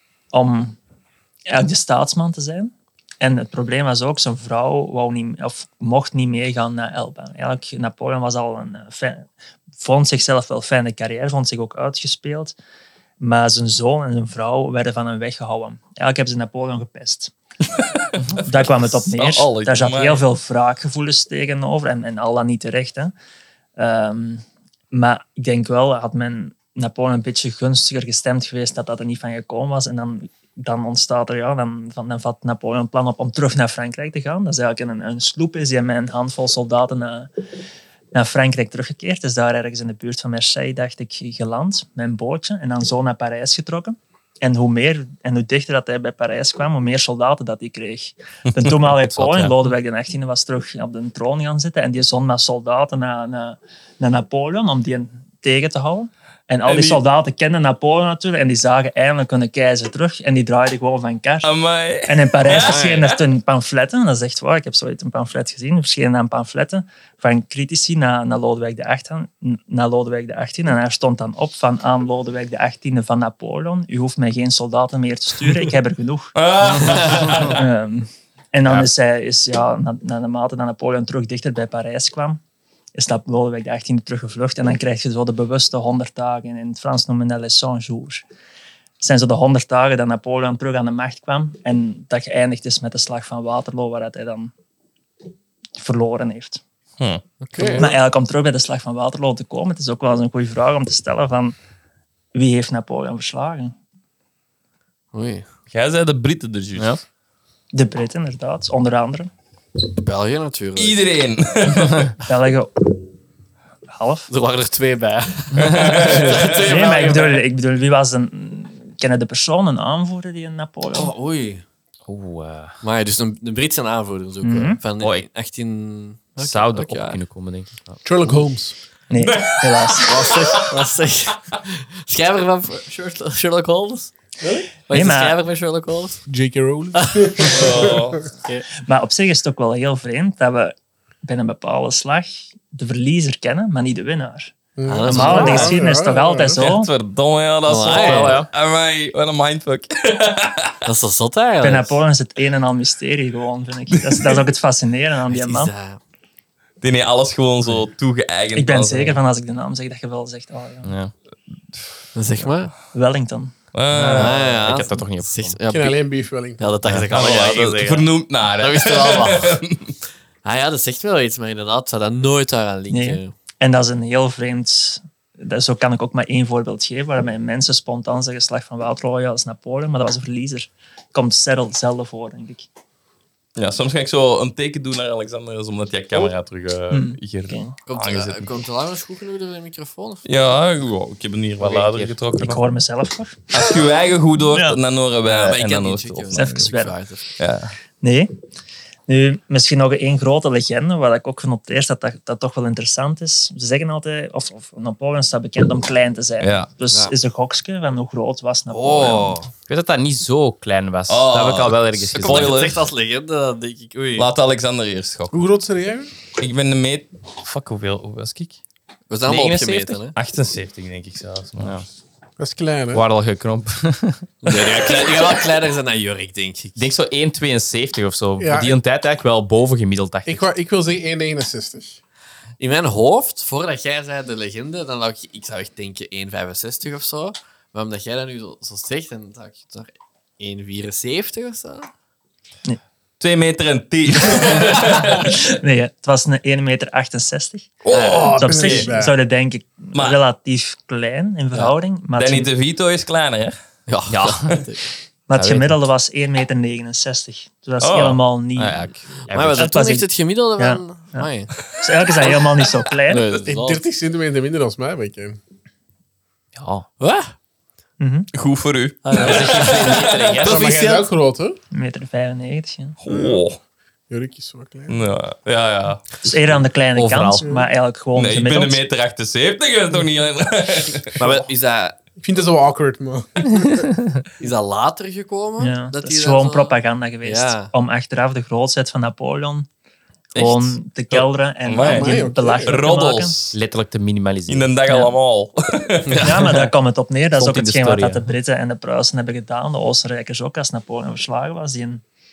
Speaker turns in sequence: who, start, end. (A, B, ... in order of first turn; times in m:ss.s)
0:00.3-0:00.8 A
0:01.5-0:12.5 A
0:13.2-0:17.3 A
0:17.8-0:20.2 B
0:18.4-0:23.1 A
0:23.8-0:37.3 A
0:38.1-1:01.5 A
0:49.1-0:49.6 C
0:56.6-0:57.0 B
1:01.4-1:03.1 B
1:02.0-1:16.4 A
1:02.5-1:03.1 D
1:16.3-1:17.6 B
1:17.3-1:22.4 A
1:22.9-1:28.2 A
1:29.0-1:34.5 A
1:35.8-1:36.6 A
1:37.4-1:37.9 D
1:37.6-1:37.9 E
1:37.8-1:41.6 A
1:42.3-1:43.7 A
1:45.1-1:45.5 D
1:45.7-1:46.9 B
1:46.8-1:47.0 C
1:47.7-1:49.3 A
1:50.0-1:51.0 D
1:50.8-1:52.1 B
1:52.2-1:52.9 A
1:53.9-1:54.3 A
1:54.3-1:57.4 D
1:55.5-1:56.5 C
1:55.6-1:56.6 B
1:56.6-2:01.1 A
2:00.9-2:01.6 D
2:02.1-2:02.7 C
2:02.8-2:07.2 D
2:04.4-2:04.8 A
2:05.0-2:05.2 C
2:06.4-2:08.0 C
2:08.0-2:08.8 E
2:09.1-2:10.3 A
2:09.2-2:10.8 B
2:10.0-2:14.1 D
2:14.9-2:15.4 A
2:14.9-2:16.2 D
2:16.3-2:18.2 E
2:16.9-2:18.6 D
2:17.5-2:18.3 B
2:18.8-2:26.9 A
2:24.8-2:26.6 E
2:24.8-2:25.8 D
2:25.7-2:30.8 B
2:27.7-2:28.4 D
2:27.9-2:28.5 C
2:30.8-2:32.0 D
2:31.6-2:35.7 A
2:33.9-2:34.4 B
2:35.3-2:36.0 D
2:36.8-2:39.2 B
2:38.5-2:40.9 A
2:40.8-2:41.1 C
2:42.1-2:42.7 D
2:42.9-2:43.5 A
2:43.7-2:44.4 B
2:43.9-2:45.6 C
2:44.0-2:46.0 D
2:45.7-2:46.8 E
2:46.6-2:49.6 D
2:46.9-2:49.9 B
2:50.4-2:53.3 D
2:52.9-3:02.7 A
3:03.6-3:08.6 B
3:06.9-3:07.8 A
3:07.9-3:10.2 D
3:10.2-3:12.6 B
3:11.6-3:12.2 C
3:12.4-3:13.6 A
3:13.5-3:16.7 B
3:14.5-3:14.8 A
3:15.2-3:17.2 D
3:16.3-3:16.9 A
3:17.4-3:17.7 B
3:18.0-3:18.3 A
3:19.1-3:29.4 A
3:26.4-3:26.7 B
3:28.7-3:29.5 D
3:29.7-3:32.6 C
3:31.1-3:32.9 B
3:32.1-3:34.3 D
3:34.2-3:35.4 B
3:35.3-3:36.1 E
3:36.4-3:38.6 B
3:39.1-3:40.1 D
3:39.2-3:40.1 C
3:40.1-3:41.8 B
3:41.6-3:41.9 C
3:42.4-3:43.0 E
3:42.9-3:44.3 C
3:44.4-3:46.9 D
3:44.6-3:45.0 B
3:46.8-3:50.5 C
3:48.4-3:48.8 E
3:50.2-3:52.0 E
3:52.6-4:01.9 D
4:03.2-4:05.4 B
4:04.7-4:07.7 A
4:07.8-4:08.9 B
4:07.9-4:08.3 D
4:07.9-4:09.1 E
4:08.3-4:12.5 A
4:09.9-4:10.2 B
4:12.2-4:13.5 B
4:13.9-4:14.9 D
4:14.1-4:14.6 C
4:15.3-4:18.9 A
4:15.3-4:15.8 C
4:17.8-4:18.2 B
4:18.6-4:19.7 C
4:19.3-4:21.5 D
4:19.5-4:23.2 A
4:23.1-4:23.8 D
4:23.4-4:25.4 E
4:26.6-4:26.8 C
4:27.0-4:27.3 D
4:28.0-4:28.3 A
4:28.3-4:30.5 B
4:29.0-4:31.0 D
4:29.1-4:30.9 C
4:30.4-4:31.6 E
4:31.7-4:33.0 A
4:33.0-4:33.6 B
4:33.1-4:33.4 E
4:34.1-4:35.0 E
4:34.9-4:36.2 B
4:36.2-4:38.8 A
4:36.9-4:37.5 C
4:38.1-4:41.2 B
4:41.2-4:42.0 D
4:42.2-4:43.8 E
4:44.4-4:47.7 D
4:45.6-4:49.7 A
4:50.3-4:53.3 A
4:50.4-4:53.6 B
4:51.8-4:52.8 E
4:53.5-4:54.7 C
4:54.5-4:56.4 B
4:56.0-4:56.3 D
4:56.2-5:02.0 A
4:57.4-4:58.3 C